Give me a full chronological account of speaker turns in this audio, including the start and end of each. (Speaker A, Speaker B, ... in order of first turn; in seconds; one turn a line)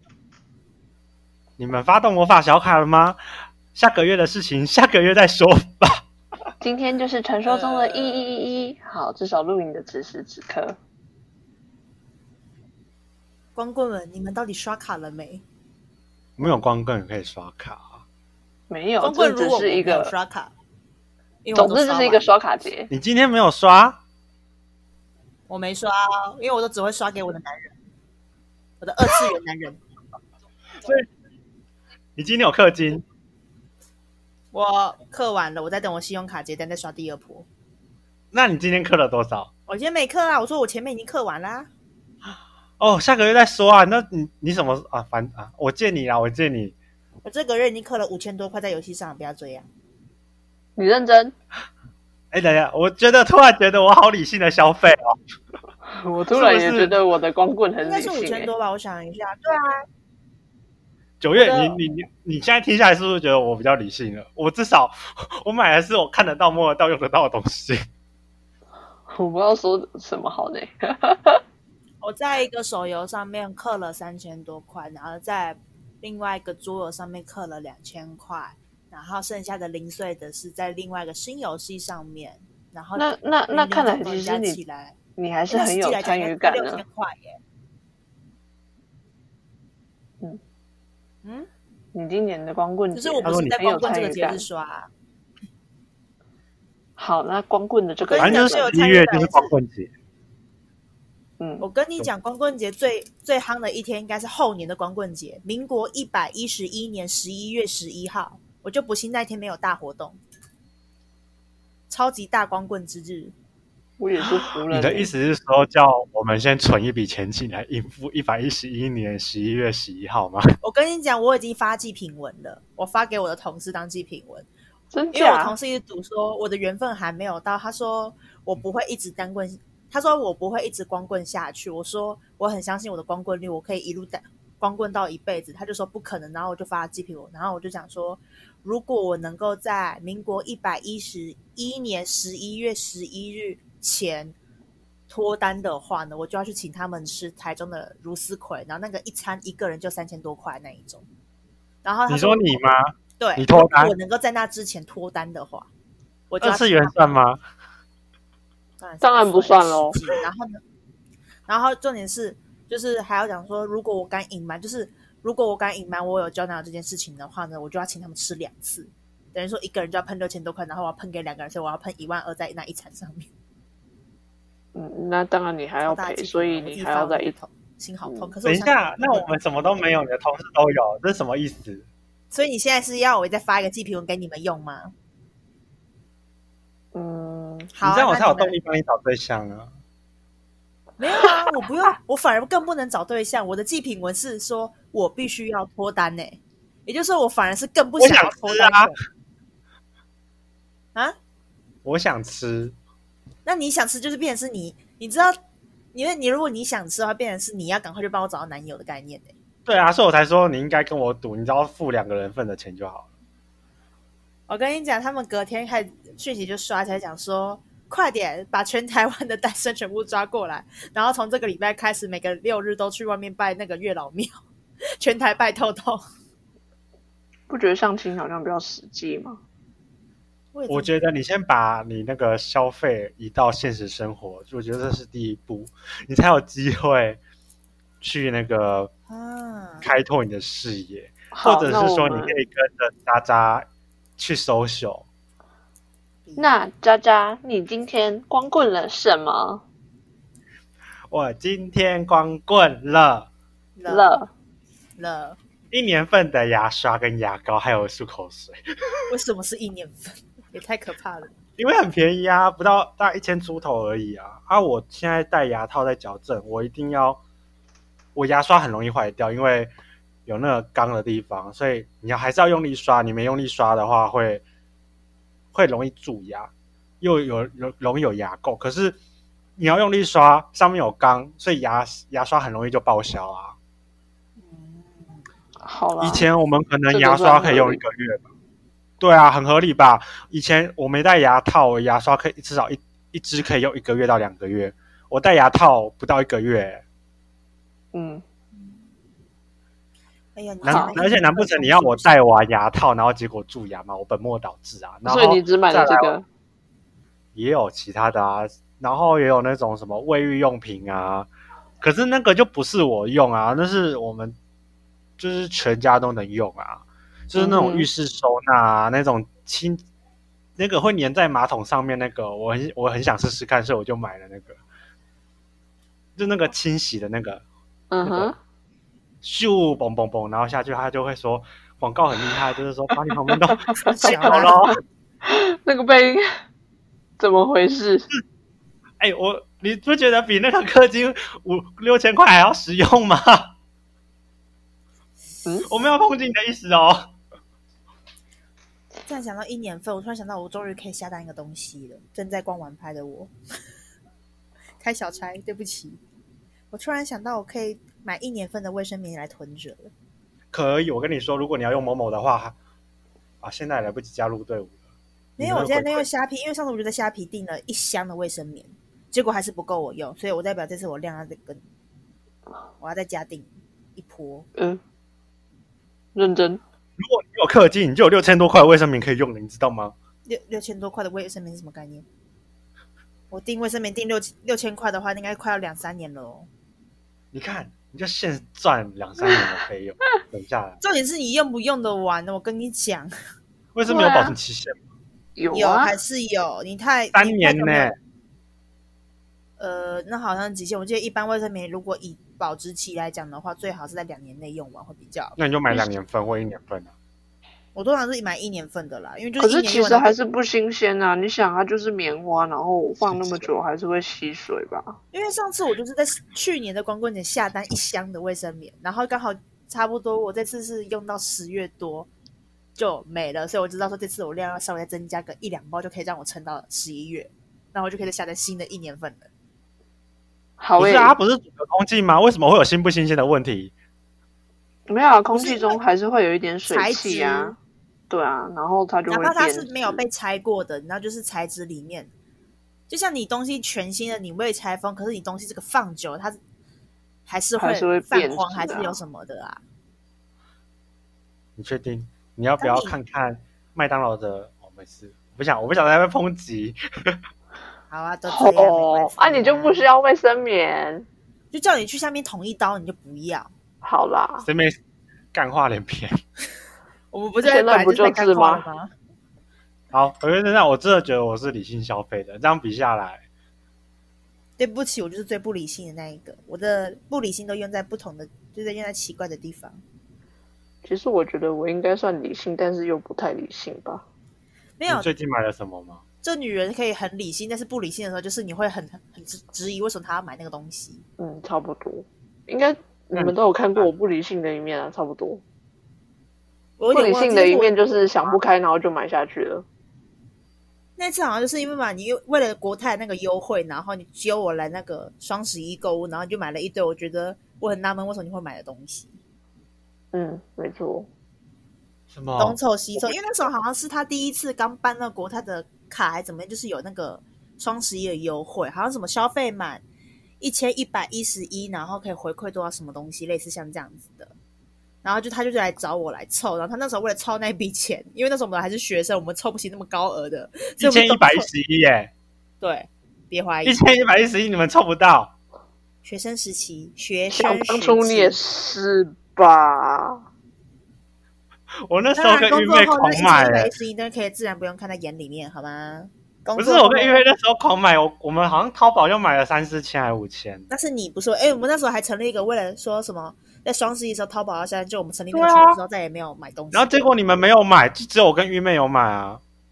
Speaker A: 1.6-3.2
Speaker A: 3.7-6.0
Speaker B: 6.6-10.8
Speaker C: 7.5-8.2
Speaker C: 13.6-15.4
Speaker A: 16.4-18.0
Speaker B: 18.7-20.1
Speaker C: 19.0-20.5
Speaker C: 21.4-22.3
Speaker B: 21.5-22.9
Speaker A: 22.9-24.0
Speaker C: 25.5-27.7
Speaker C: 28.8-29.8
Speaker A: 30.8-31.1
Speaker A: 32.2-33.0
Speaker C: 34.5-37.5
Speaker A: 38.3-39.5
Speaker C: 39.7-41.7
Speaker A: 42.8-46.7
Speaker C: 47.2-49.7
Speaker B: 50.8-51.3
Speaker A: 52.3-55.1
Speaker B: 55.9-58.5
Speaker A: 56.3-56.9
Speaker C: 57.8-59.7
Speaker A: 61.2-67.8
Speaker C: 61.3-61.8
Speaker B: 69.1-71.4
Speaker C: 72.0-85.0
Speaker B: 83.0-84.6
Speaker B: 85.2-86.8
Speaker C: 85.5-87.4
Speaker C: 91.2-91.5
Speaker B: 91.9-94.4
Speaker C: 92.9-94.9
Speaker A: 93.2-93.8
Speaker B: 97.0-98.7
Speaker C: 98.0-99.5
Speaker A: 98.2-99.9
Speaker B: 101.4-101.6
Speaker C: 101.6-110.2
Speaker C: 111.9-113.3
Speaker B: 114.0-115.1
Speaker A: 114.7-120.5
Speaker C: 120.6-124.5
Speaker B: 124.9-125.5
Speaker C: 125.1-144.3
Speaker C: 145.1-151.1
Speaker C: 151.8-152.6
Speaker A: 152.1-153.9
Speaker C: 153.2-155.7
Speaker C: 156.3-156.9
Speaker A: 156.4-157.4
Speaker C: 158.8-160.6
Speaker B: 159.0-160.0
Speaker C: 161.5-173.3
Speaker B: 174.7-177.3
Speaker C: 175.8-179.3
Speaker B: 178.0-178.3
Speaker A: 178.4-181.8
Speaker C: 182.3-184.9
Speaker B: 186.9-187.7
Speaker C: 187.7-188.6
Speaker A: 187.8-189.7
Speaker C: 191.0-198.9
Speaker A: 198.0-198.9
Speaker A: 201.8-202.7
Speaker C: 203.4-205.4
Speaker C: 205.9-209.3
Speaker A: 209.7-213.1
Speaker C: 214.5-224.3
Speaker C: 225.0-226.0
Speaker B: 227.5-229.4
Speaker C: 230.5-230.9
Speaker A: 230.7-237.2
Speaker A: 238.0-238.9
Speaker C: 239.1-239.9
Speaker A: 239.8-243.7
Speaker B: 241.3-242.3
Speaker A: 244.2-245.1
Speaker C: 246.2-246.5
Speaker B: 246.4-249.6
Speaker A: 251.1-253.3
Speaker C: 253.8-254.1
Speaker B: 253.9-254.3
Speaker C: 255.0-255.4
Speaker A: 255.7-258.6
Speaker C: 259.1-261.3
Speaker A: 261.6-267.2
Speaker A: 268.1-269.7
Speaker A: 270.2-274.4
Speaker A: 275.5-279.0
Speaker A: 279.6-283.5
Speaker C: 284.4-285.2
Speaker B: 285.6-286.3
Speaker A: 286.0-288.2
Speaker B: 286.9-287.8
Speaker A: 289.0-296.8
Speaker B: 297.9-298.2
Speaker C: 298.5-298.9
Speaker C: 300.3-302.3
Speaker A: 300.6-306.1
Speaker B: 300.7-301.0
Speaker B: 305.0-306.2
Speaker A: 307.3-311.3
Speaker A: 311.8-314.3
Speaker A: 315.2-319.8
Speaker B: 317.3-317.9
Speaker A: 320.6-324.6
Speaker A: 326.1-327.4
Speaker B: 327.9-328.4
Speaker A: 328.0-328.3
Speaker A: 329.2-334.8
Speaker B: 333.5-334.3
Speaker C: 333.8-334.6
Speaker B: 335.2-336.2
Speaker B: 337.2-338.1
Speaker A: 339.0-343.5
Speaker A: 345.7-347.1
Speaker C: 349.1-353.3
Speaker C: 354.8-356.0
Speaker C: 356.7-359.9
Speaker A: 360.5-362.5
Speaker A: 363.4-364.7
Speaker A: 365.4-366.0
Speaker C: 365.4-371.6
Speaker C: 372.8-374.5
Speaker B: 376.1-376.6
Speaker A: 377.0-379.9
Speaker C: 380.2-382.0
Speaker C: 383.3-386.5
Speaker A: 387.3-390.8
Speaker C: 390.8-393.1
Speaker A: 393.7-394.8
Speaker B: 393.9-394.4
Speaker B: 395.4-395.9
Speaker C: 395.5-397.9
Speaker A: 397.1-397.9
Speaker C: 399.6-405.4
Speaker A: 405.4-406.9
Speaker C: 407.7-410.1
Speaker B: 409.4-415.0
Speaker A: 413.0-413.4
Speaker C: 415.1-422.1
Speaker C: 422.8-429.3
Speaker B: 430.6-431.1
Speaker A: 430.8-433.7
Speaker B: 434.9-437.6
Speaker C: 435.3-435.8
Speaker C: 436.7-437.6
Speaker B: 438.1-439.9
Speaker C: 439.1-442.1
Speaker C: 442.9-446.4
Speaker C: 447.3-449.6
Speaker B: 447.6-449.0
Speaker A: 451.6-457.2
Speaker C: 452.6-452.9
Speaker C: 457.9-459.9
Speaker B: 458.3-461.1
Speaker C: 461.5-463.5
Speaker B: 463.8-464.5
Speaker A: 464.4-464.8
Speaker A: 465.3-466.2
Speaker C: 467.1-468.9
Speaker B: 467.4-468.6
Speaker A: 469.9-473.2
Speaker C: 474.6-479.8
Speaker B: 480.8-484.0
Speaker C: 484.8-485.1
Speaker A: 484.9-486.0
Speaker C: 486.2-491.0
Speaker B: 491.2-495.4
Speaker A: 493.1-493.9
Speaker C: 496.8-497.7
Speaker B: 496.9-499.6
Speaker C: 501.0-509.2
Speaker B: 510.1-511.1
Speaker A: 512.1-513.1
Speaker C: 512.4-519.8
Speaker C: 520.4-524.3
Speaker C: 525.0-531.5
Speaker A: 530.8-532.1
Speaker C: 532.6-533.8
Speaker A: 533.6-535.3
Speaker C: 536.0-538.4
Speaker B: 537.3-540.2
Speaker A: 541.9-543.7
Speaker C: 542.1-547.2
Speaker A: 546.5-550.6
Speaker C: 550.7-557.1
Speaker A: 555.3-555.8
Speaker A: 556.7-559.4